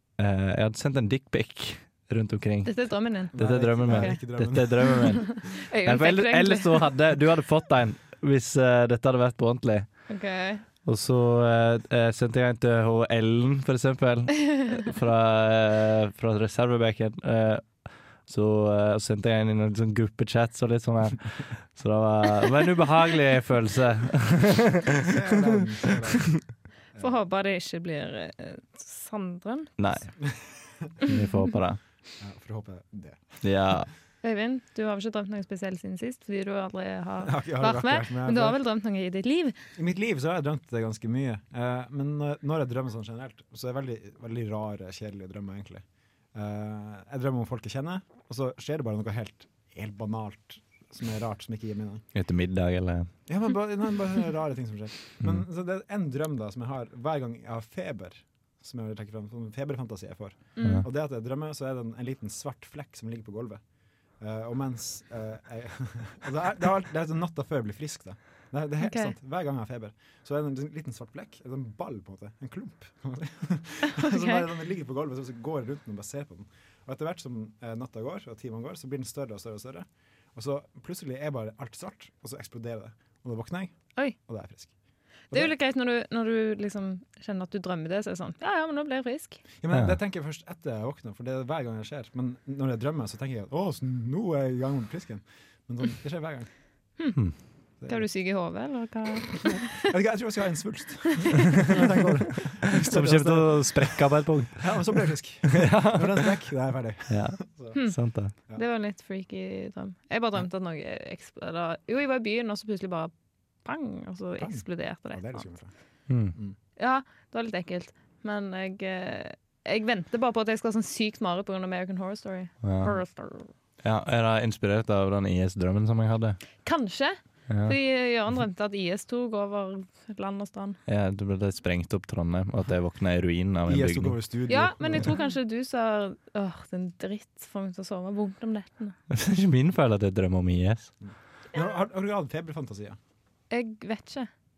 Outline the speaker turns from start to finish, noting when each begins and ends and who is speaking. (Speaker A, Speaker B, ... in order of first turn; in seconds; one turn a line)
Speaker A: 0.2-10.1
Speaker B: 2.6-4.2
Speaker C: 3.3-5.1
Speaker B: 4.8-6.9
Speaker B: 10.1-10.6
Speaker A: 10.8-25.2
Speaker C: 25.0-27.1
Speaker A: 25.8-26.4
Speaker B: 27.0-29.7
Speaker A: 29.8-30.1
Speaker C: 30.5-30.9
Speaker A: 31.1-31.8
Speaker C: 32.2-33.5
Speaker A: 33.4-33.9
Speaker B: 34.2-39.5
Speaker C: 37.2-38.6
Speaker C: 39.8-52.0
Speaker A: 52.1-53.1
Speaker C: 53.3-63.6
Speaker B: 60.5-60.8
Speaker C: 64.2-84.7
Speaker B: 68.8-69.1
Speaker B: 73.9-74.4
Speaker B: 85.3-89.4
Speaker C: 89.6-96.5
Speaker B: 97.0-99.9
Speaker C: 97.8-98.1
Speaker C: 99.8-107.8
Speaker A: 102.7-105.0
Speaker A: 105.5-106.3
Speaker A: 107.1-108.3
Speaker B: 107.7-113.1
Speaker B: 113.6-115.5
Speaker C: 114.4-115.7
Speaker A: 116.1-116.3
Speaker B: 116.8-123.5
Speaker A: 122.6-123.0
Speaker A: 123.8-126.4
Speaker B: 126.6-130.8
Speaker A: 127.5-127.8
Speaker A: 130.9-134.2
Speaker C: 133.7-135.2
Speaker B: 134.5-138.9
Speaker A: 139.1-140.9
Speaker C: 141.0-143.0
Speaker B: 143.5-144.3